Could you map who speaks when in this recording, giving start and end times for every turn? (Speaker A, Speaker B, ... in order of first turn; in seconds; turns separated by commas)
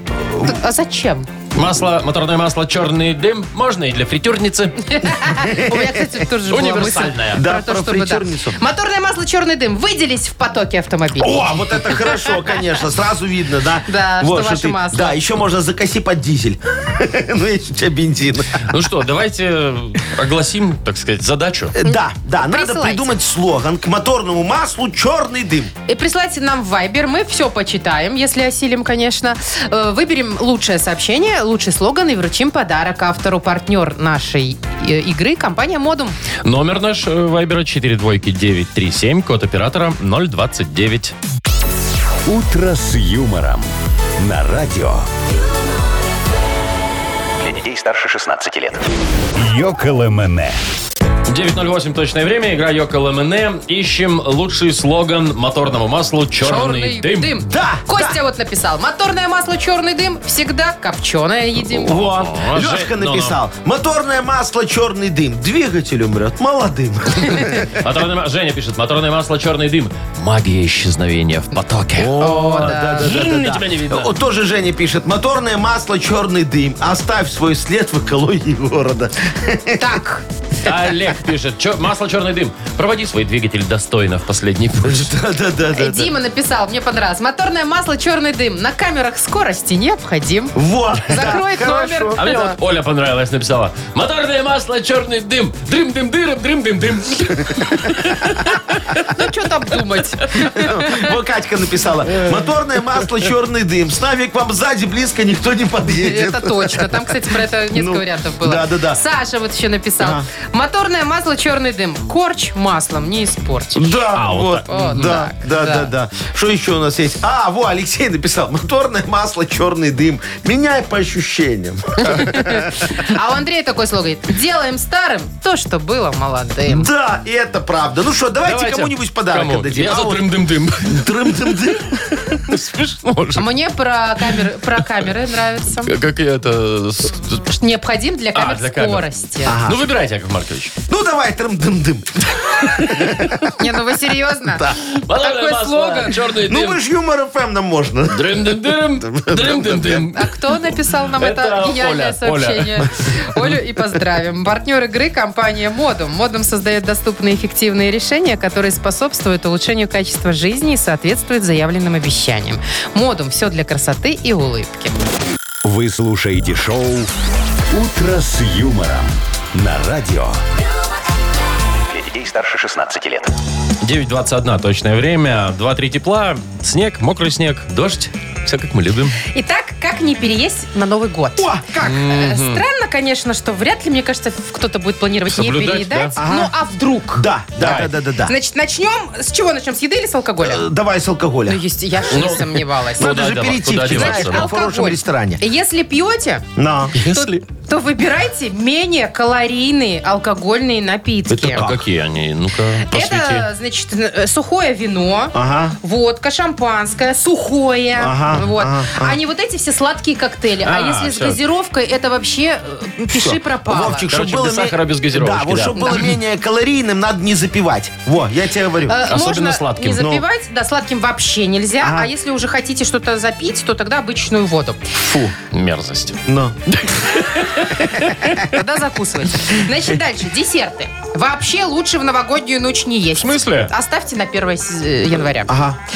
Speaker A: 0.3-0.6, Speaker B: 0.4-1.3, Speaker C: 1.5-4.8, Speaker B: 4.8-12.1, Speaker A: 5.4-6.1, Speaker C: 6.5-7.4, Speaker A: 7.3-8.6, Speaker A: 11.2-18.7, Speaker B: 13.9-15.2, Speaker C: 18.7-21.7, Speaker A: 21.8-25.7, Speaker B: 21.8-23.1, Speaker B: 25.9-36.1, Speaker C: 36.4-41.1, Speaker D: 42.2-45.0, Speaker E: 47.4-48.8, Speaker D: 49.3-50.6, Speaker C: 51.3-57.4, Speaker B: 56.4-62.0, Speaker A: 57.5-58.2, Speaker A: 61.7-67.8, Speaker C: 61.9-63.4, Speaker C: 67.8-74.1, Speaker A: 72.0-80.0, Speaker B: 72.2-73.1, Speaker B: 79.8-80.2, Speaker C: 80.6-85.1, Speaker A: 84.8-86.1, Speaker B: 85.7-92.6, Speaker A: 90.5-92.2, Speaker C: 92.2-99.0, Speaker B: 99.1-101.1, Speaker A: 100.3-107.1, Speaker B: 106.0-114.0, Speaker A: 107.7-109.0, Speaker A: 110.0-110.2, Speaker A: 113.7-123.0, Speaker C: 114.1-115.0, Speaker B: 114.7-115.9, Speaker B: 122.3-126.9, Speaker A: 126.7-130.2, Speaker C: 128.4-131.6, Speaker A: 130.9-132.4, Speaker C: 132.4-133.5, Speaker B: 133.4-135.9, Speaker C: 135.8-137.4, Speaker B: 137.5-139.6, Speaker C: 138.3-140.7, Speaker A: 139.4-139.8, Speaker A: 140.9-143.5, Speaker B: 143.6-146.2, Speaker A: 144.5-144.8, Speaker C: 144.8-146.8, Speaker A: 146.5-150.1, Speaker C: 148.1-150.4, Speaker B: 150.1-165.0, Speaker C: 151.2-152.9, Speaker D: 165.6-167.1, Speaker D: 167.7-170.4, Speaker E: 171.9-173.3, Speaker C: 173.8-179.2, Speaker B: 179.3-187.2, Speaker A: 181.4-182.1, Speaker C: 181.8-182.6, Speaker C: 185.3-186.1, Speaker A: 186.2-186.5, Speaker A: 187.2-188.3, Speaker C: 187.6-187.9, Speaker B: 188.2-190.6, Speaker A: 190.4-191.6, Speaker B: 191.5-193.1, Speaker C: 192.1-194.5, Speaker A: 193.0-195.4, Speaker B: 193.9-196.4, Speaker A: 196.6-197.0, Speaker C: 196.9-197.4, Speaker B: 197.1-201.6, Speaker A: 201.3-201.8, Speaker C: 201.5-203.5, Speaker B: 202.8-214.1, Speaker A: 205.3-205.8, Speaker A: 208.0-209.2, Speaker C: 210.6-211.4, Speaker A: 213.1-219.0, Speaker C: 214.1-216.1, Speaker B: 215.7-216.1, Speaker B: 218.9-224.8, Speaker C: 219.0-220.1, Speaker A: 219.9-220.2, Speaker A: 221.8-222.1, Speaker A: 225.0-225.3, Speaker C: 225.5-226.2, Speaker A: 226.3-226.6, Speaker C: 226.7-228.3, Speaker A: 228.1-228.3, Speaker B: 228.4-235.5, Speaker C: 233.2-233.7, Speaker A: 235.5-235.8